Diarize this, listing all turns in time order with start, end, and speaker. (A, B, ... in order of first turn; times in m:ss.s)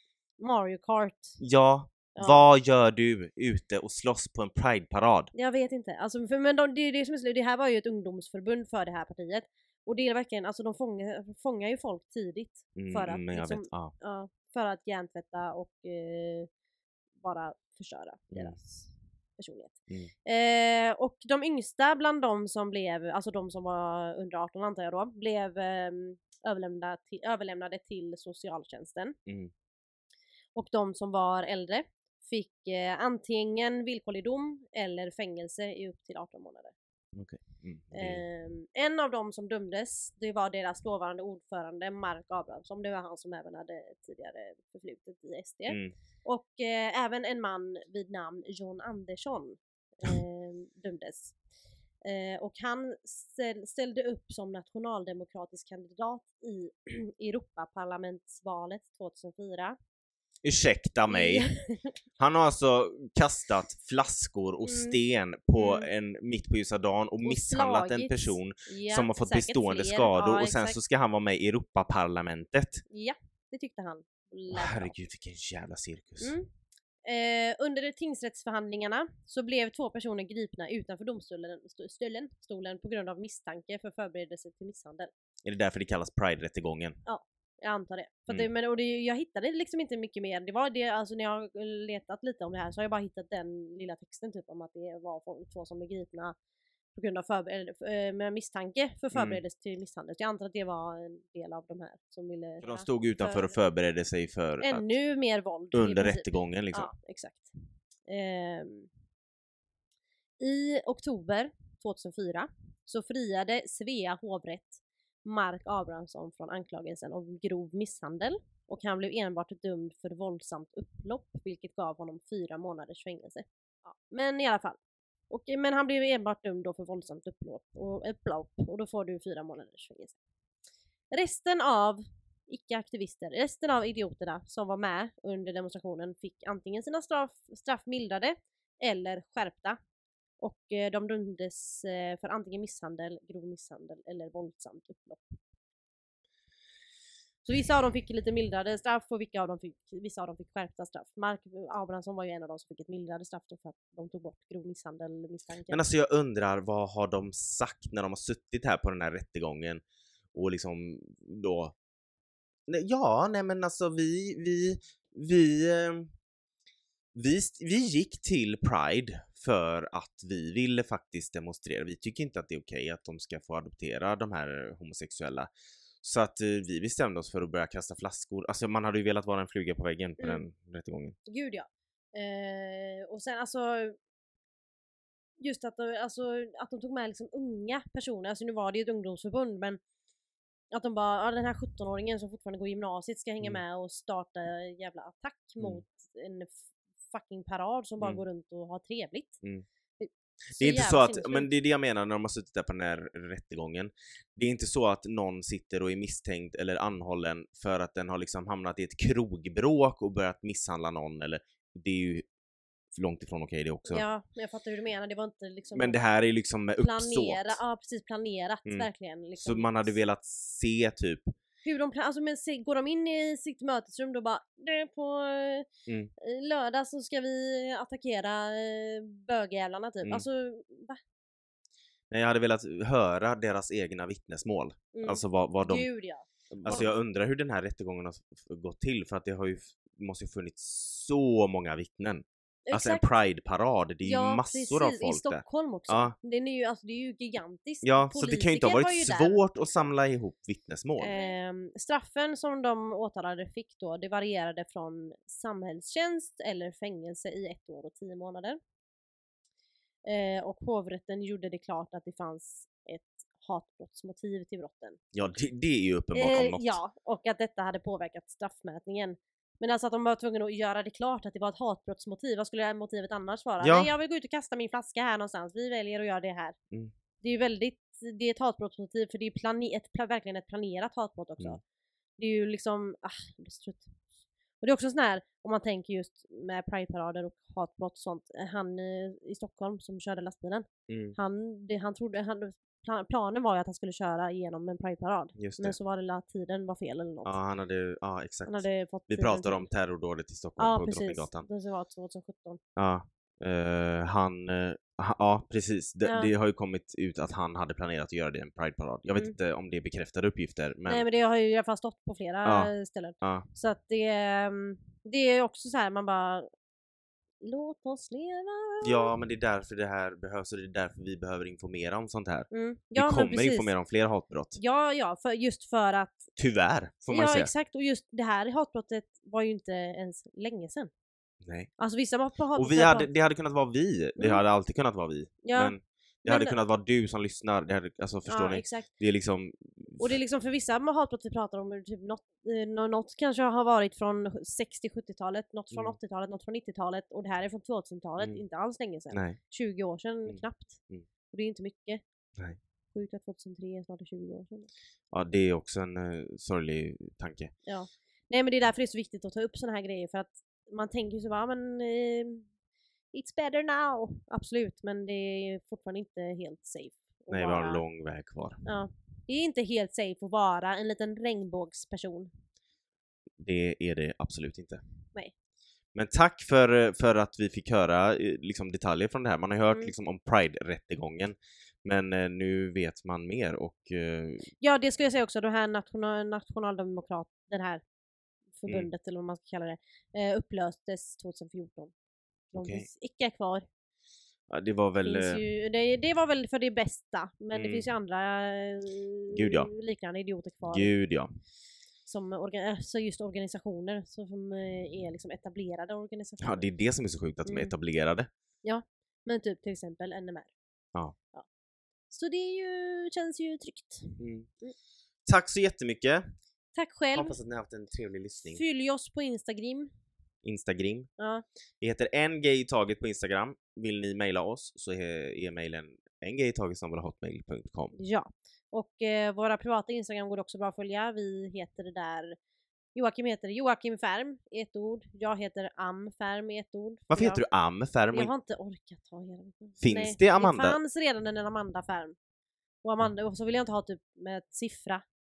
0:00.4-0:01.4 A
0:01.4-0:05.3 B
0:02.2-0:02.4 A
0:05.3-0:16.5 A
0:12.8-0:13.9 B
0:17.2-0:29.2 A
0:18.3-0:18.6 B
0:29.3-0:29.5 B
0:30.6-0:36.7 A
0:37.1-0:38.2 B
0:37.9-0:51.4 A
0:45.7-0:45.9 B
0:52.0-0:59.8 A
1:00.4-1:01.5 B
1:01.1-1:01.9 A
1:02.2-1:12.8 B
1:04.6-1:05.0 A
1:05.5-1:05.9 A
1:07.2-1:10.8 A
1:12.9-1:15.0 A
1:14.5-1:16.3 B
1:16.2-1:16.5 A
1:17.0-1:25.1 A
1:25.4-1:27.0 B
1:27.0-1:36.4 A
1:36.9-1:43.6 A
1:39.1-1:39.4 B
1:42.6-1:44.9 B
1:44.6-1:47.5 A
1:45.7-1:46.9 B
1:48.1-1:48.9 A
1:50.4-2:04.8 A
2:05.3-2:10.2 A
2:11.1-2:19.8 A
2:20.4-2:25.4 A
2:27.4-2:35.8 A
2:35.7-2:39.8 B
2:40.3-2:41.7 B
2:42.7-2:46.1 B
2:47.1-3:01.2 B
3:01.2-3:04.0 A
3:05.4-3:09.8 A
3:10.7-3:19.4 A
3:20.0-3:21.5 A
3:20.5-3:32.2 B
3:32.9-3:34.0 B
3:33.9-3:36.0 A
3:35.7-3:37.6 B
3:36.8-3:39.9 A
3:39.4-3:41.3 B
3:41.6-3:51.0 A
3:52.1-3:55.8 B
3:54.9-3:56.9 A
3:56.5-4:06.1 B
4:02.7-4:03.0 A
4:04.0-4:09.4 A
4:07.8-4:11.2 B
4:11.0-4:18.6 A
4:20.0-4:25.0 A
4:25.1-4:26.8 B
4:26.1-4:36.6 A
4:33.6-4:33.9 B
4:37.2-4:41.6 A
4:42.2-4:44.0 A
4:44.6-4:57.4 A
4:50.9-4:51.2 B
4:55.4-4:55.8 B
4:57.2-5:01.5 B
4:58.4-4:59.7 A
5:00.6-5:02.6 A
5:02.8-5:11.0 B
5:06.0-5:06.3 A
5:10.9-5:16.5 A
5:12.4-5:13.4 B
5:17.4-5:19.1 A
5:18.8-5:24.6 B
5:22.5-5:23.7 A
5:24.6-5:26.3 A
5:26.4-5:27.5 B
5:27.1-5:30.9 A
5:31.4-5:31.7 B
5:31.8-5:33.1 A
5:32.6-5:40.1 B
5:35.4-5:35.7 A
5:36.2-5:36.6 A
5:38.3-5:38.9 A
5:40.0-5:50.8 A
5:49.1-5:49.4 B
5:50.3-5:51.0 B
5:51.3-5:52.0 A
5:52.9-5:54.7 A
5:55.1-5:57.5 B
5:57.6-6:02.5 A
6:03.1-6:07.8 A
6:07.3-6:08.6 B
6:08.6-6:12.3 A
6:13.4-6:14.8 B
6:15.9-6:24.5 B
6:24.6-6:27.8 A
6:28.6-6:31.9 A
6:32.5-6:32.9 B
6:32.6-6:33.6 A
6:34.5-6:35.4 B
6:35.0-6:40.9 A
6:37.5-6:37.8 B
6:39.3-6:39.7 B
6:40.7-6:41.3 B
6:42.0-6:46.7 A
6:46.4-6:48.3 B
6:47.4-6:47.7 A
6:48.6-6:50.5 A
6:52.1-6:54.7 A
6:54.2-6:54.5 B
6:55.3-6:56.3 B
6:56.7-6:57.4 A
6:57.1-6:58.6 B
6:58.5-6:59.9 A
7:00.4-7:01.1 B
7:01.2-7:01.4 A
7:01.8-7:07.9 B
7:08.0-7:12.4 A
7:12.9-7:17.4 A
7:17.1-7:18.3 B
7:18.1-7:22.2 A
7:19.8-7:20.8 B
7:22.8-7:25.0 A